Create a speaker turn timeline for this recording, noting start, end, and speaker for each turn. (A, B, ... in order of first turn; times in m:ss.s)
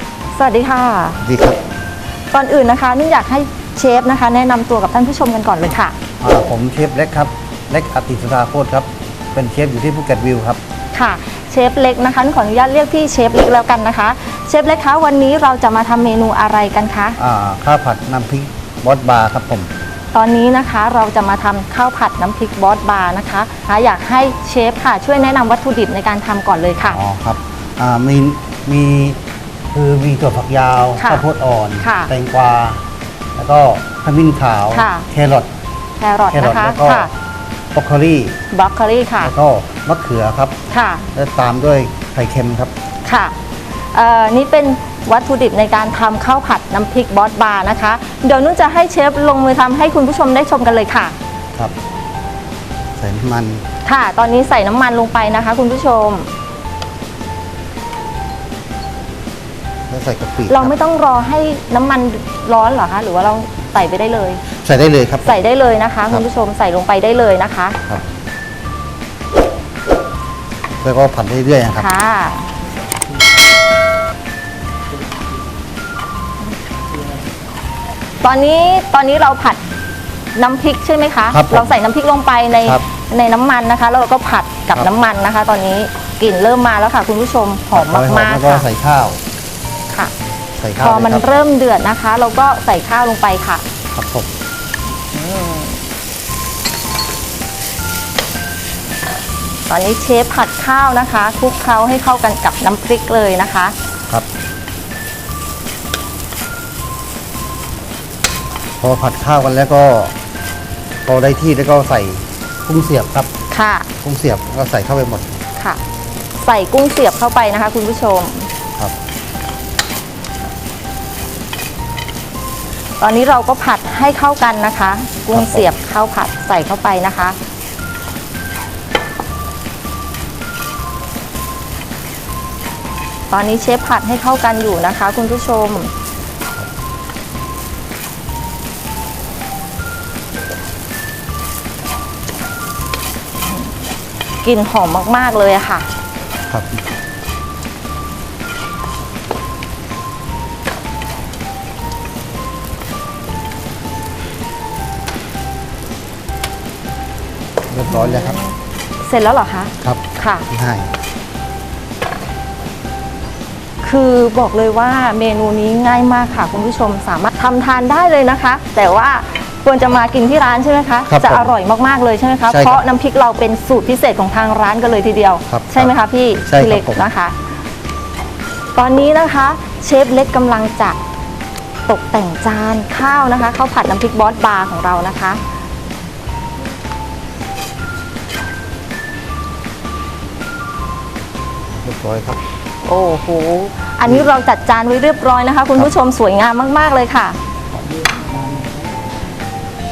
0:00.4-0:01.2 A
0:01.2-0:01.6 B
0:02.3-0:06.0 A
0:06.2-0:10.6 B
0:10.9-0:17.2 A
0:17.2-0:19.7 B
0:20.1-0:27.0 A
0:26.9-0:29.2 B
0:29.7-0:32.8 B
0:31.0-0:31.2 A
0:31.8-0:32.1 A
0:33.4-0:35.5 B
0:34.7-0:35.1 A
0:36.0-0:37.1 A
0:36.3-0:37.1 B
0:37.7-0:38.4 B
0:38.5-0:39.3 A
0:39.2-0:40.5 B
0:40.7-0:41.1 A
0:41.1-0:42.7 B
0:43.0-0:43.4 A
0:43.9-0:51.2 A
0:53.0-0:53.6 B
0:53.8-0:56.3 A
0:59.9-1:00.7 B
1:00.5-1:04.4 A
1:04.6-1:05.4 B
1:05.2-1:07.8 A
1:10.8-1:11.9 B
1:11.8-1:12.5 A
1:18.2-1:19.6 A
1:20.3-1:28.7 A
1:21.3-1:21.8 B
1:27.7-1:29.2 B
1:30.6-1:31.2 B
1:30.8-1:33.6 A
1:33.9-1:34.3 B
1:35.1-1:35.8 A
1:39.7-1:43.7 A
1:48.8-1:50.1 B
1:51.0-1:53.3 B
1:53.5-1:53.9 A
1:54.0-1:55.4 B
1:56.3-1:58.5 A
2:03.0-2:07.4 A
2:05.3-2:05.7 B
2:13.3-2:15.9 A
2:24.4-2:25.9 A
2:26.5-2:26.8 B
2:37.7-2:38.4 B
2:37.9-2:40.5 A
2:39.8-2:40.9 B
2:43.8-2:57.3 A
2:51.1-2:51.5 B
2:52.5-2:52.8 B
2:55.5-2:55.9 B
2:56.4-2:57.0 B
2:58.7-3:01.0 A
3:01.9-3:05.4 A
3:11.8-3:12.4 B
3:12.8-3:17.4 A
3:14.0-3:14.3 B